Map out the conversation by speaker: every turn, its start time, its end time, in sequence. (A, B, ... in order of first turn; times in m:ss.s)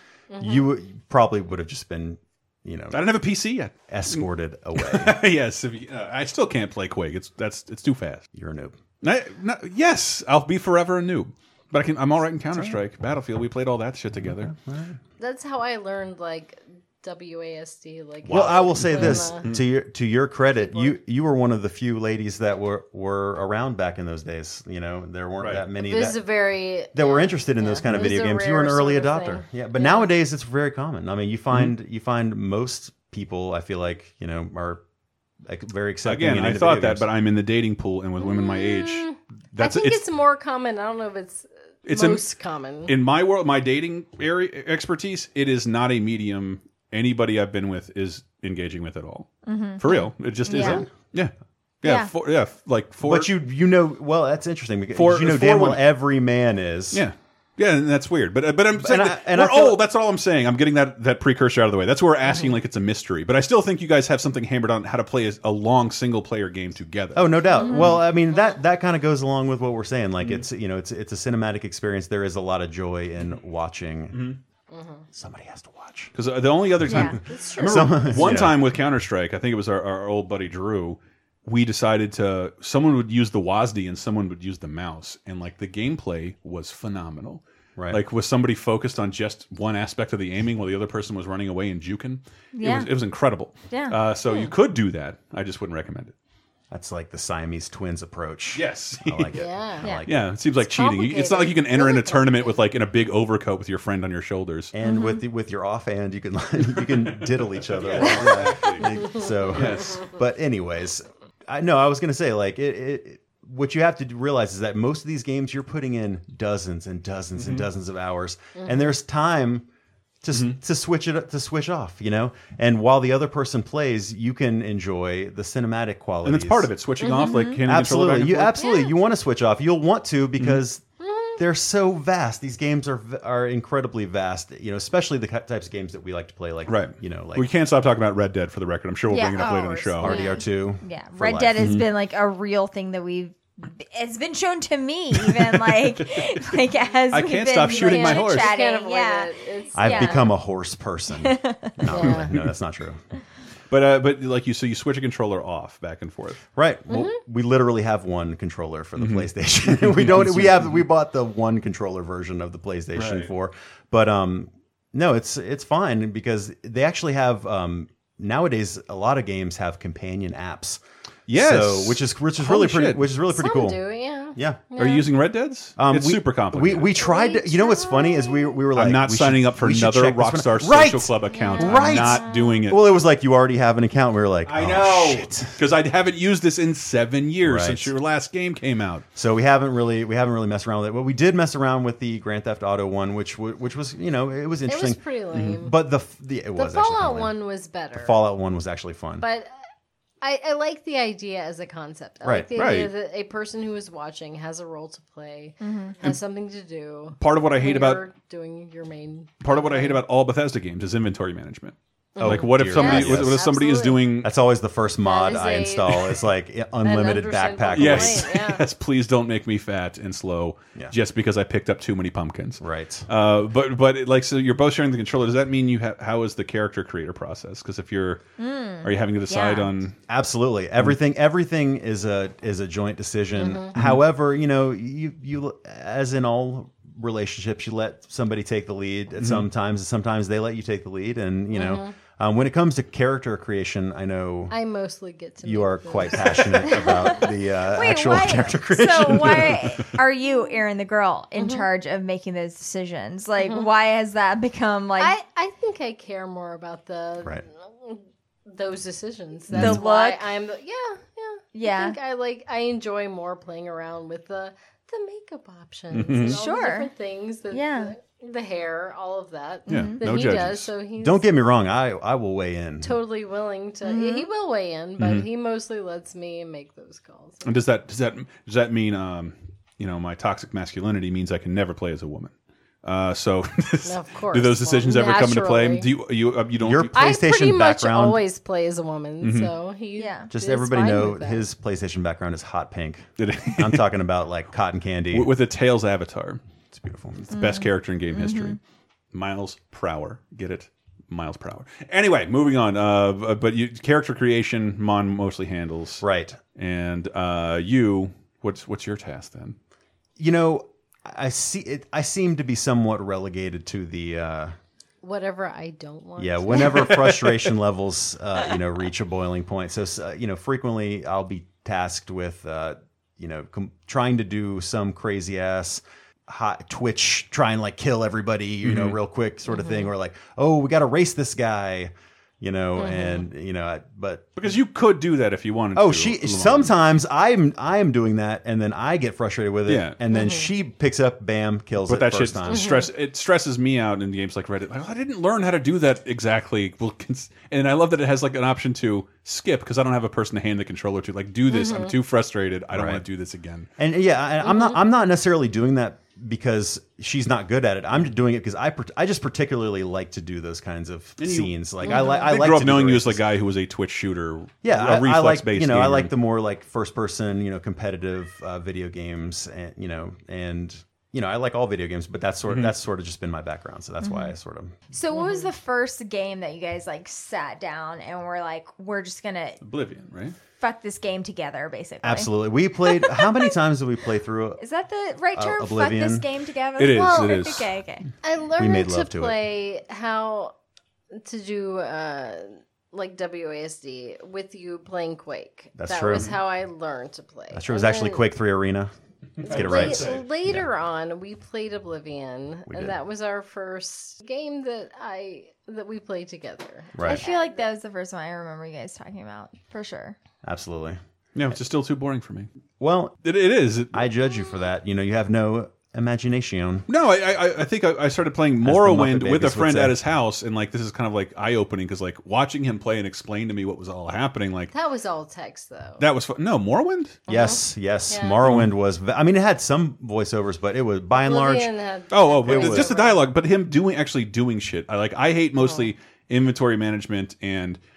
0:00.3-0:00.7 A
0:00.4-0:03.0 B
0:02.9-0:08.2 C
0:03.9-0:05.2 B
0:08.3-0:08.8 B
0:09.0-0:14.5 C
0:12.5-0:12.8 B
0:14.2-0:15.0 B
0:15.2-0:19.5 A
0:18.2-0:19.6 C
0:18.3-0:26.2 B
0:20.6-0:21.0 A
0:25.4-0:25.6 C
0:25.8-0:30.1 A
0:26.9-0:34.8 B
0:35.5-0:37.1 B
0:36.0-0:40.0 C
0:38.2-0:42.9 A
0:41.9-0:42.2 C
0:42.9-0:53.3 C
0:49.5-0:50.8 D
0:50.6-0:50.8 B
0:51.8-0:52.1 D
0:53.0-0:57.0 B
0:54.9-0:55.8 C
0:56.9-1:07.4 C
0:58.8-0:59.8 B
1:07.2-1:14.3 B
1:07.6-1:08.0 D
1:14.1-1:14.4 C
1:14.7-1:15.0 A
1:15.1-1:16.1 B
1:16.2-1:36.1 C
1:16.8-1:18.6 B
1:16.9-1:17.2 D
1:17.2-1:18.4 A
1:27.8-1:28.0 B
1:32.6-1:32.9 D
1:33.7-1:34.5 D
1:36.7-1:40.3 B
1:38.5-1:39.4 C
1:39.4-1:39.9 A
1:40.0-1:44.7 C
1:40.8-1:42.5 A
1:44.7-1:59.7 B
1:44.8-1:45.2 D
1:47.5-1:50.0 C
1:48.8-1:49.2 A
1:57.4-1:57.7 C
1:58.6-1:58.9 A
2:00.2-2:06.7 B
2:00.3-2:00.6 C
2:06.2-2:08.6 C
2:07.0-2:07.6 D
2:07.6-2:10.8 B
2:08.6-2:08.9 A
2:11.0-2:11.4 A
2:11.4-2:17.5 B
2:16.7-2:20.2 C
2:19.1-2:30.3 D
2:20.0-2:21.8 B
2:21.6-2:21.9 C
2:25.2-2:26.6 C
2:27.1-2:28.5 C
2:27.6-2:30.3 A
2:29.8-2:33.0 B
2:31.2-2:32.1 D
2:31.9-2:32.4 A
2:33.7-2:36.4 C
2:36.6-2:50.8 B
2:36.9-2:37.2 A
2:39.0-2:40.8 C
2:43.0-2:43.3 C
2:51.3-2:53.2 C
2:51.3-2:53.8 B
2:53.3-2:55.1 A
2:54.4-2:54.6 B
2:54.8-2:57.0 C
2:55.8-3:05.6 B
2:57.0-2:58.6 A
2:58.8-3:02.8 C
3:01.3-3:02.3 A
3:01.4-3:01.7 D
3:04.4-3:09.1 C
3:07.4-3:07.9 B
3:09.2-3:15.0 B
3:14.7-3:15.7 A
3:15.3-3:15.6 C
3:15.5-3:17.3 B
3:16.6-3:18.2 A
3:18.0-3:19.3 B
3:19.2-3:19.5 A
3:20.2-3:30.0 A
3:22.2-3:22.5 B
3:22.6-3:22.9 C
3:25.6-3:26.0 D
3:27.2-3:28.0 C
3:29.4-3:34.3 C
3:32.2-3:34.1 A
3:32.2-3:33.5 B
3:32.8-3:33.0 D
3:34.2-3:38.3 B
3:35.0-3:36.1 A
3:36.8-3:38.6 A
3:37.7-3:48.2 C
3:42.6-3:43.1 B
3:48.4-3:49.7 D
3:48.8-3:50.0 C
3:50.1-4:04.6 B
3:53.4-3:53.8 A
3:53.8-3:54.0 C
3:59.2-3:59.5 C
4:01.5-4:01.9 A
4:04.5-4:07.1 A
4:05.4-4:09.9 B
4:06.8-4:15.2 D
4:10.3-4:10.6 A
4:11.4-4:11.7 A
4:13.4-4:13.7 A
4:15.0-4:31.3 A
4:19.5-4:20.3 D
4:19.5-4:19.8 C
4:21.6-4:22.0 D
4:25.9-4:26.4 C
4:26.2-4:26.9 D
4:27.5-4:27.9 D
4:29.7-4:30.0 D
4:29.7-4:30.7 C
4:31.0-4:33.0 B
4:32.8-4:37.5 A
4:33.8-4:34.3 D
4:35.0-4:35.3 C
4:37.4-4:42.3 C
4:42.8-4:47.0 C
4:43.8-4:45.9 A
4:46.6-4:48.2 B
4:46.9-4:51.4 A
4:49.2-4:49.5 C
4:50.0-4:50.3 D
4:50.3-4:55.3 B
4:53.2-4:53.9 C
4:55.1-4:56.4 C
4:56.7-4:57.3 B
4:57.2-4:58.6 C
4:57.3-4:58.6 D
4:59.1-5:06.0 C
5:06.0-5:06.4 B
5:06.6-5:09.6 C
5:10.2-5:14.6 B
5:15.0-5:17.1 A
5:16.2-5:34.3 B
5:16.7-5:17.2 C
5:28.6-5:29.0 C
5:32.8-5:33.3 A
5:34.4-5:36.7 C
5:35.8-5:42.8 B
5:39.7-5:40.0 C
5:40.1-5:40.5 A
5:41.8-5:53.7 C
5:42.5-5:42.9 A
5:51.5-5:52.0 A
5:52.7-5:53.0 B
5:53.8-6:03.2 B
6:01.2-6:06.1 C
6:01.8-6:02.2 A
6:04.6-6:14.7 B
6:14.0-6:14.3 D
6:14.9-6:19.6 D
6:15.1-6:15.5 A
6:19.6-6:20.4 C
6:20.6-6:22.3 D
6:22.0-6:24.6 B
6:22.8-6:23.4 D
6:24.6-6:28.1 D
6:25.3-6:26.2 B
6:26.8-6:27.7 C
6:26.9-6:27.3 A
6:28.2-6:30.5 A
6:28.6-6:29.4 B
6:31.1-6:38.3 A
6:35.8-6:36.3 B
6:37.5-6:38.9 B
6:39.4-6:40.2 C
6:39.4-6:40.7 B
6:39.5-6:47.7 A
6:42.7-6:43.0 B
6:47.0-6:47.2 B
6:47.0-6:50.2 D
6:50.4-6:51.0 B
6:51.4-6:52.5 C
6:52.8-6:53.2 B
6:53.2-6:54.1 C
6:53.9-6:56.9 B
6:56.9-7:04.7 C
6:58.6-7:00.0 B
7:04.7-7:06.0 A
7:06.0-7:07.2 C
7:07.3-7:08.5 A
7:07.3-7:11.7 B
7:08.4-7:08.7 C
7:11.1-7:13.2 A
7:12.1-7:17.8 C
7:12.4-7:13.0 B
7:15.6-7:15.9 A